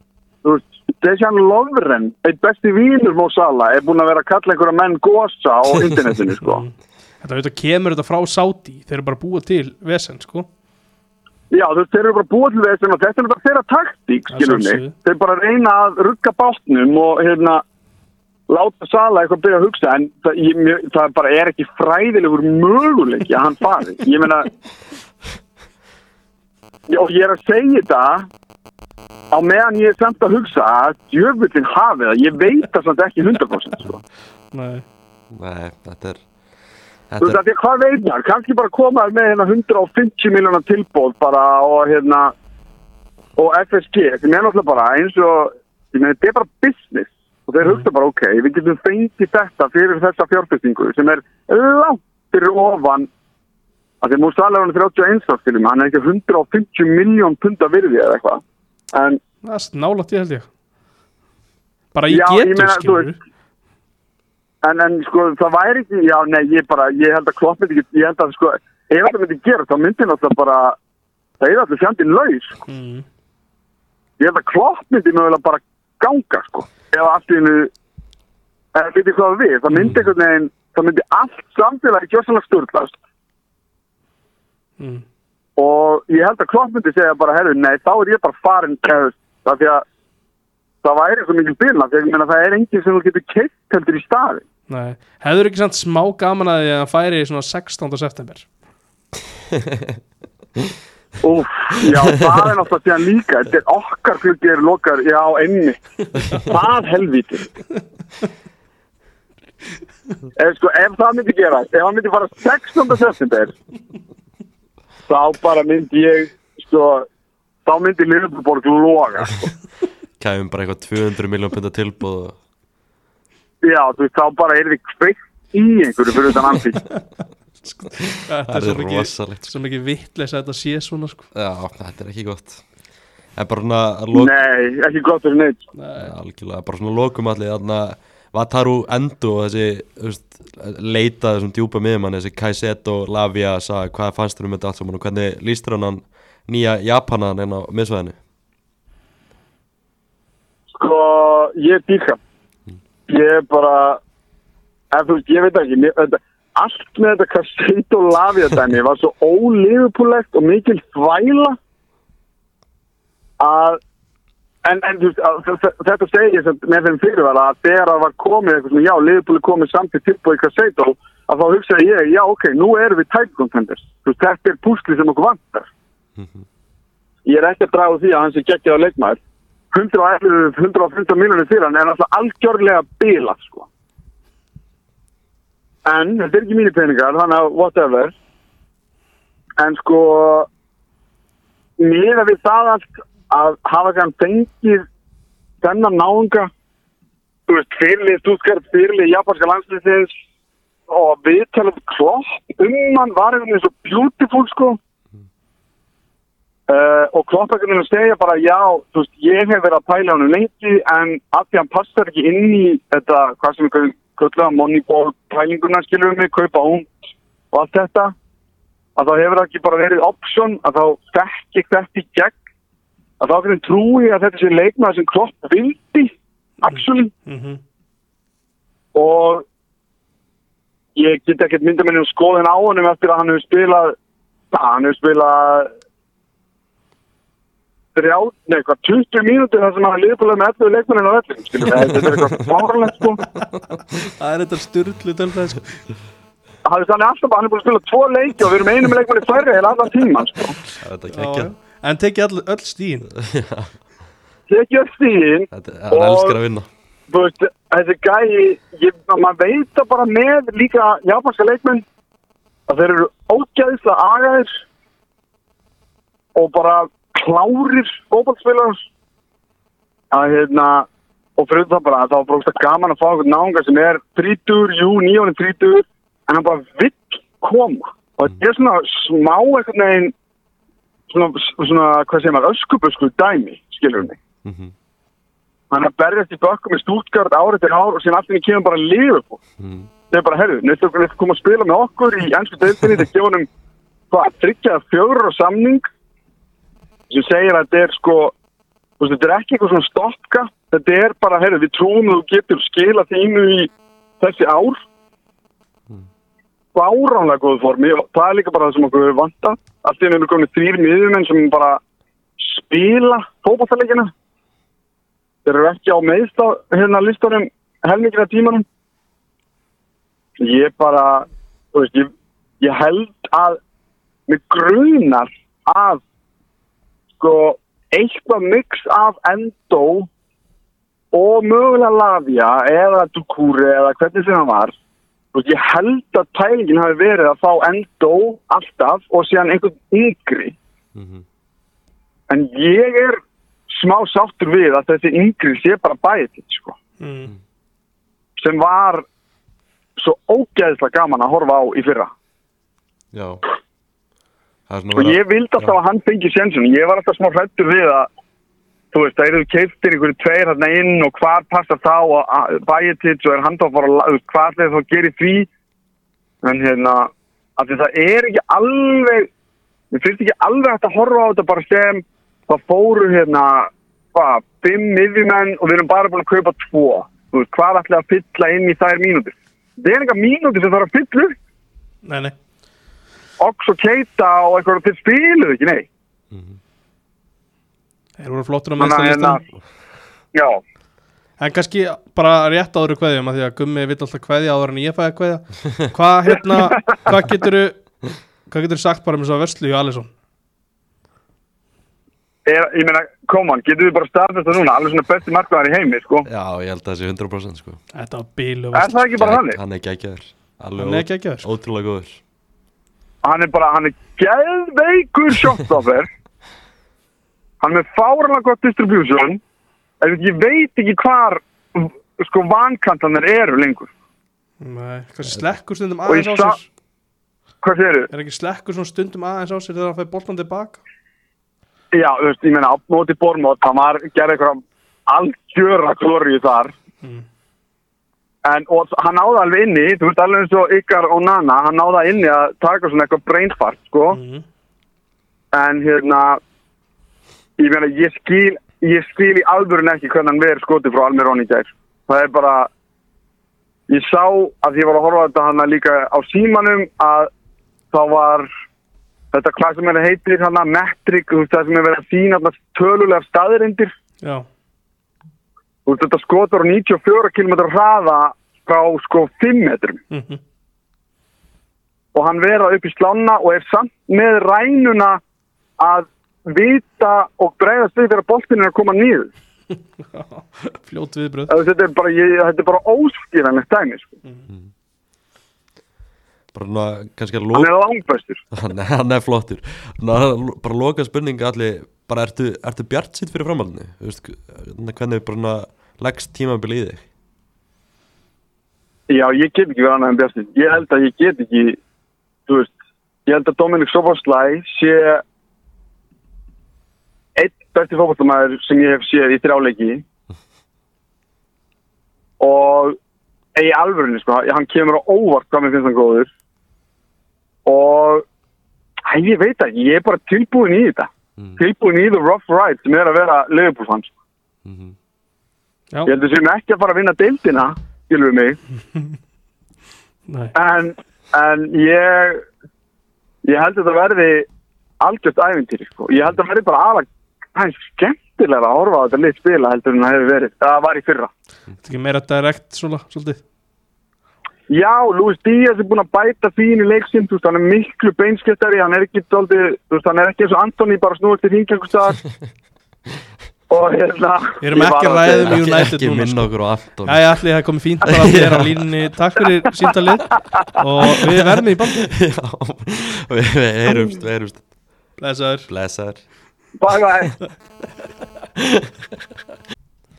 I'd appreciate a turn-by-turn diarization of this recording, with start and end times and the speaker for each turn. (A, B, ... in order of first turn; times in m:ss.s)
0:00.4-0:06.6 A
0:06.4-0:06.7 B
0:07.2-0:10.5 B
0:11.5-0:17.6 A
0:14.3-0:14.9 B
0:18.5-0:24.5 A
0:26.9-0:28.3 A
0:29.3-0:34.0 A
0:34.5-0:34.8 B
0:35.3-0:36.2 C
0:37.1-0:37.4 C
0:37.2-0:42.3 A
0:43.4-0:53.1 A
0:54.0-0:58.4 A
0:58.9-0:59.2 A
0:59.4-1:00.5 B
1:01.9-1:03.1 B
1:02.1-1:03.1 A
1:04.6-1:10.8 A
1:11.4-1:12.6 A
1:12.7-1:13.0 B
1:14.2-1:17.7 A
1:18.7-1:23.0 A
1:25.6-1:29.8 A
1:30.8-1:34.4 A
1:34.7-1:38.5 B
1:41.2-1:47.5 A
1:50.4-1:53.5 A
1:55.1-1:57.0 A
1:57.6-1:59.5 A
2:00.2-2:02.4 C
2:03.6-2:06.8 A
2:07.6-2:11.3 B
2:08.4-2:09.5 C
2:11.3-2:12.6 C
2:13.4-2:14.3 C
2:14.1-2:15.6 A
2:15.8-2:16.1 B
2:16.0-2:28.2 C
2:30.7-2:32.2 A
2:33.1-2:34.0 A
2:34.9-2:41.6 A
2:43.4-2:43.8 A
2:44.6-2:55.7 A
2:56.2-2:56.4 C
2:57.2-2:59.2 A
2:59.7-3:03.7 A
3:05.8-3:08.1 A
3:09.6-3:10.5 A
3:11.8-3:14.8 A
3:15.6-3:16.5 A
3:17.5-3:20.1 A
3:20.9-3:24.8 A
3:26.7-3:37.0 A
3:37.5-3:38.1 A
3:39.0-3:42.4 A
3:43.2-3:47.1 A
3:46.6-3:47.6 B
3:48.9-3:49.4 A
3:51.0-3:54.0 A
3:54.5-3:55.7 A
3:57.9-4:03.2 A
4:04.0-4:05.8 B
4:06.6-4:10.6 A
4:10.8-4:11.5 C
4:11.1-4:13.1 B
4:13.1-4:13.7 C
4:14.5-4:16.4 A
4:15.5-4:16.7 C
4:17.1-4:21.8 A
4:22.7-4:24.6 A
4:26.3-4:28.8 A
4:30.1-4:40.1 A
4:41.1-4:44.2 A
4:44.4-4:44.7 C
4:45.7-4:49.4 A
4:49.6-4:49.9 C
4:50.1-4:53.5 A
4:54.1-4:55.8 A
4:57.1-4:58.3 A
4:59.0-5:04.8 A
5:06.7-5:11.8 A
5:12.4-5:14.1 A
5:15.4-5:18.6 A
5:20.4-5:23.6 A
5:24.3-5:26.0 A
5:27.2-5:30.1 A
5:31.1-5:34.7 A
5:35.3-5:40.6 A
5:40.9-5:41.2 C
5:42.3-5:46.8 A
5:47.0-5:47.3 B
5:48.4-5:49.0 A
5:50.0-5:52.1 A
5:53.1-5:53.4 C
5:54.7-5:55.7 C
5:54.9-5:58.1 A
5:58.9-6:05.5 A
6:06.4-6:09.3 A
6:09.9-6:21.4 A
6:22.0-6:22.3 B
6:23.4-6:25.9 A
6:26.3-6:26.6 C
6:28.2-6:29.4 B
6:28.8-6:29.4 A
6:30.3-6:30.6 A
6:31.4-6:37.8 B
6:38.5-6:40.1 B
6:42.5-6:46.3 A
6:46.2-6:47.8 C
6:47.9-6:49.0 B
6:48.7-6:49.6 A
6:49.2-6:52.2 C
6:50.8-6:51.5 B
6:53.2-6:56.1 A
6:57.6-6:59.4 A
7:00.0-7:03.9 A
7:04.6-7:06.6 B
7:06.1-7:06.6 A
7:07.6-7:08.1 A
7:08.1-7:10.8 B
7:11.9-7:16.7 A
7:18.4-7:24.2 A
7:24.1-7:24.4 B
7:25.5-7:26.4 A
7:27.6-7:32.7 A
7:33.9-7:37.3 A
7:37.9-7:38.5 A
7:39.3-7:43.9 A
7:45.8-7:50.0 A
7:50.1-7:50.4 B
7:52.1-7:55.2 A
7:55.8-7:59.3 A
8:00.1-8:01.5 B
8:01.5-8:04.1 A
8:06.5-8:07.7 C
8:07.5-8:08.4 A
8:08.5-8:17.0 C
8:19.1-8:21.8 A
8:22.5-8:22.7 A
8:23.2-8:25.2 A
8:27.4-8:30.0 A
8:32.4-8:33.0 A
8:33.6-8:36.3 A
8:37.6-8:38.2 A
8:39.1-8:44.1 A
8:44.6-8:44.9 C
8:46.0-8:48.6 A
8:50.3-8:50.5 B
8:50.5-8:52.4 A
8:53.4-8:54.4 A
8:55.0-9:01.3 A
9:01.8-9:03.4 B
9:04.7-9:12.2 A
9:13.7-9:15.5 A
9:14.6-9:22.1 B
9:15.4-9:17.4 C
9:18.0-9:18.9 C
9:21.1-9:24.6 C
9:25.2-9:25.7 B
9:25.7-9:26.2 C
9:26.8-9:27.3 A
9:28.6-9:28.9 C